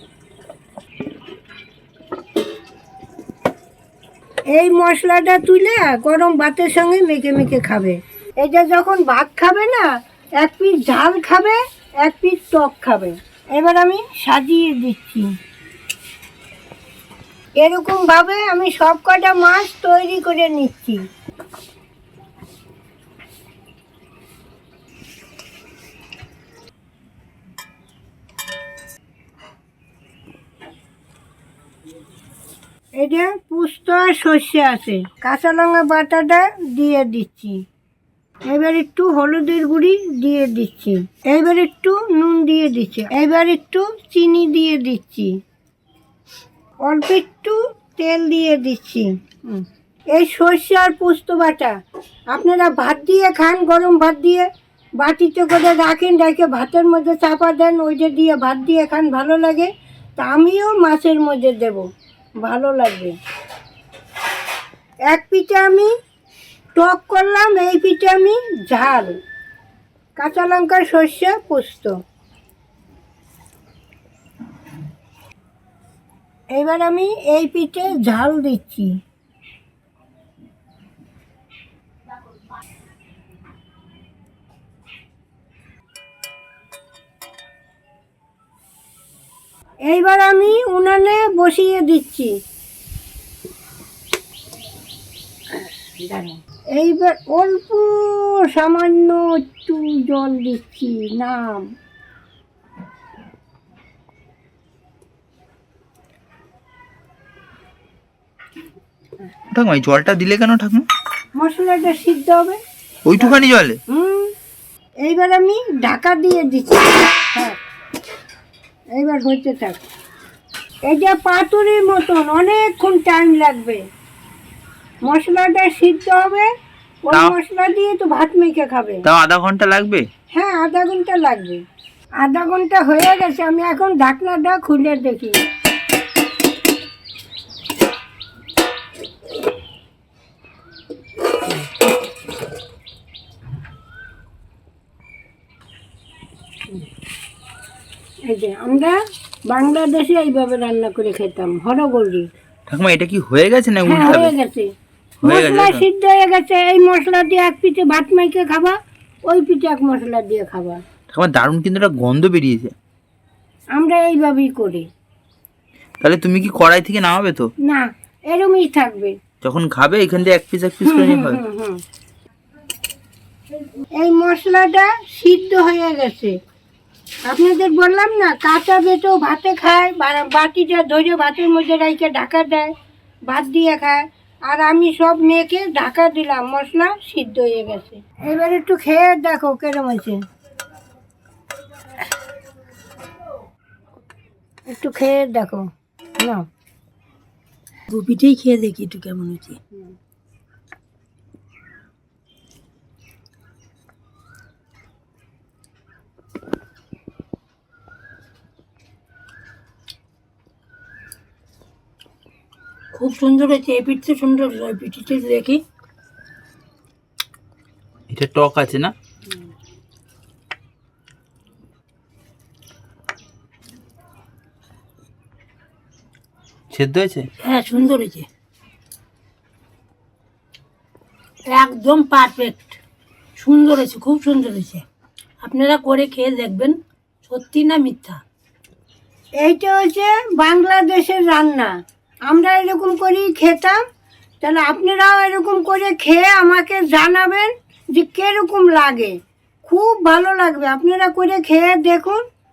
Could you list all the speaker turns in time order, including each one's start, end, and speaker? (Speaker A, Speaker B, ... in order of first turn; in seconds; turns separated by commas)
Speaker A: 4.5-9.9, Speaker A: 10.4-15.3, Speaker A: 17.6-21.0, Speaker A: 33.0-37.6, Speaker A: 38.5-45.3, Speaker A: 46.9-51.8, Speaker A: 52.3-54.5, Speaker A: 55.0-61.9, Speaker A: 62.4-63.1, Speaker A: 65.1-65.9, Speaker A: 66.8-69.1, Speaker A: 70.2-71.9, Speaker A: 76.6-79.0, Speaker A: 89.9-92.3, Speaker A: 96.0-101.6, Speaker B: 109.5-110.9, Speaker A: 111.3-112.6, Speaker B: 113.1-113.8, Speaker A: 113.2-114.3, Speaker A: 115.0-117.6, Speaker A: 119.0-119.8, Speaker A: 120.9-123.8, Speaker A: 125.1-126.5, Speaker A: 127.0-129.0, Speaker B: 129.1-130.1, Speaker A: 130.3-131.6, Speaker A: 132.2-135.4, Speaker A: 148.3-148.9, Speaker A: 149.5-152.3, Speaker B: 152.7-154.3, Speaker A: 153.9-154.7, Speaker B: 155.2-155.8, Speaker A: 155.2-160.8, Speaker B: 161.1-162.7, Speaker A: 163.8-164.8, Speaker B: 166.0-167.5, Speaker A: 167.7-169.2, Speaker B: 169.4-171.4, Speaker A: 170.8-171.8, Speaker A: 174.0-176.3, Speaker A: 177.3-182.7, Speaker A: 183.3-190.2, Speaker A: 194.7-196.4, Speaker C: 197.9-199.6, Speaker C: 212.9-215.6, Speaker B: 218.1-218.9, Speaker B: 226.7-227.3, Speaker C: 227.4-228.3, Speaker C: 231.5-232.8, Speaker C: 233.4-234.8, Speaker C: 235.4-238.2, Speaker A: 239.4-241.7, Speaker A: 242.3-243.8, Speaker A: 244.4-252.2